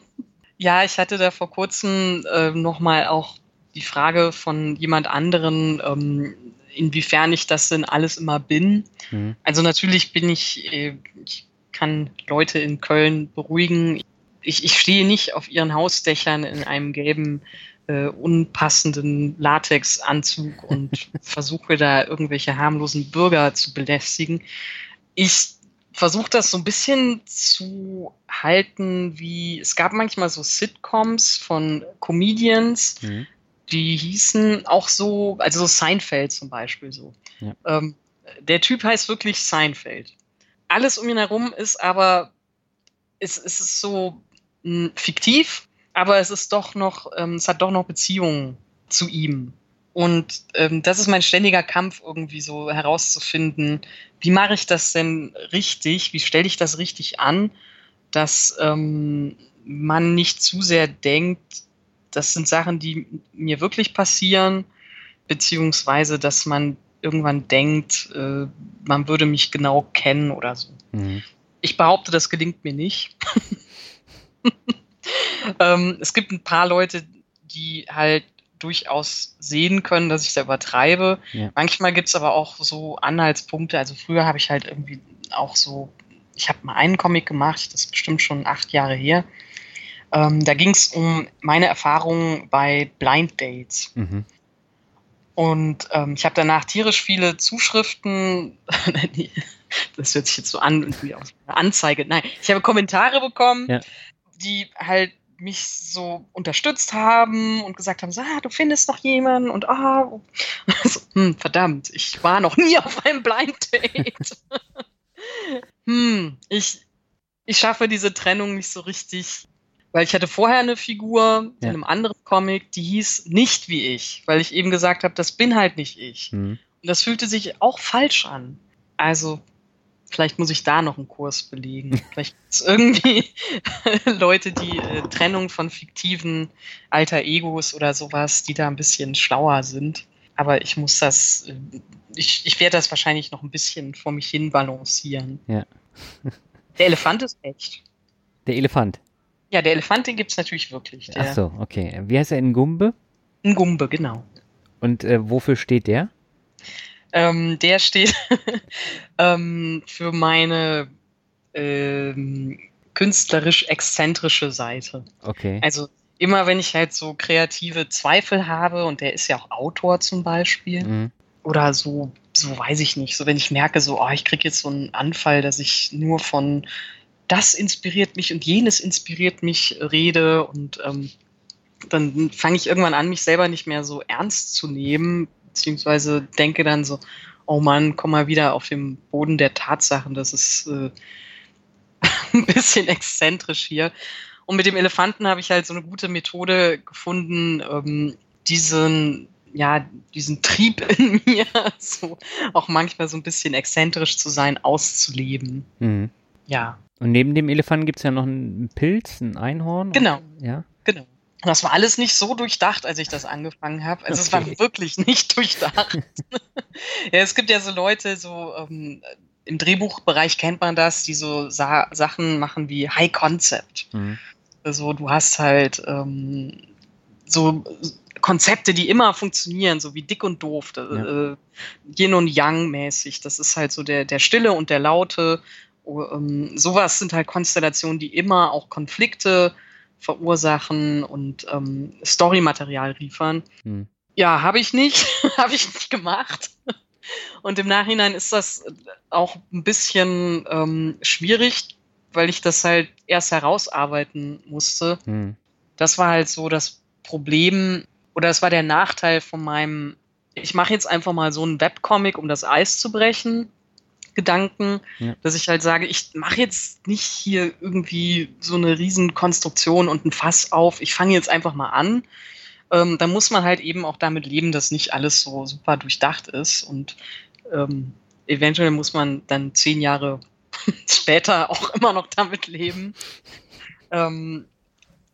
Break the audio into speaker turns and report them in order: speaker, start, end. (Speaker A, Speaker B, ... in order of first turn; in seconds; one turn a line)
Speaker A: 0.6-8.9
Speaker A: 9.4-24.4
Speaker A: 25.1-33.0
Speaker B: 33.0-33.3
Speaker A: 33.7-40.1
Speaker A: 40.7-42.3
Speaker A: 43.2-57.5
Speaker A: 58.1-61.6
Speaker A: 62.1-64.7
Speaker A: 65.3-70.8
Speaker B: 70.9-71.2
Speaker A: 71.6-73.1
Speaker A: 75.0-89.2
Speaker A: 90.1-93.9
Speaker B: 94.0-94.2
Speaker A: 95.3-103.8
Speaker A: 104.4-114.6
Speaker A: 115.2-116.8
Speaker A: 117.5-129.4
Speaker B: 126.3-126.6
Speaker A: 130.1-145.4
Speaker B: 145.5-146.4
Speaker A: 146.8-147.8
Speaker B: 148.4-149.0
Speaker A: 149.5-151.4
Speaker B: 151.1-152.9
Speaker A: 153.4-154.2
Speaker B: 154.8-156.1
Speaker A: 157.1-160.9
Speaker A: 161.5-165.1
Speaker B: 165.2-165.6
Speaker A: 165.6-170.9
Speaker B: 170.8-171.1
Speaker A: 171.4-176.7
Speaker A: 177.3-181.1
Speaker A: 181.9-190.9
Speaker A: 192.0-193.9
Speaker A: 194.5-205.7
Speaker B: 205.8-206.1
Speaker A: 206.5-206.8
Speaker B: 207.0-210.6
Speaker A: 209.9-210.2
Speaker A: 210.8-223.9
Speaker B: 214.1-214.5
Speaker A: 224.6-226.6
Speaker A: 227.3-243.4
Speaker A: 244.2-246.5
Speaker A: 247.1-255.0
Speaker B: 255.1-255.4
Speaker A: 255.8-263.5
Speaker A: 264.1-272.0
Speaker A: 272.7-276.9
Speaker A: 277.5-282.9
Speaker A: 283.9-284.5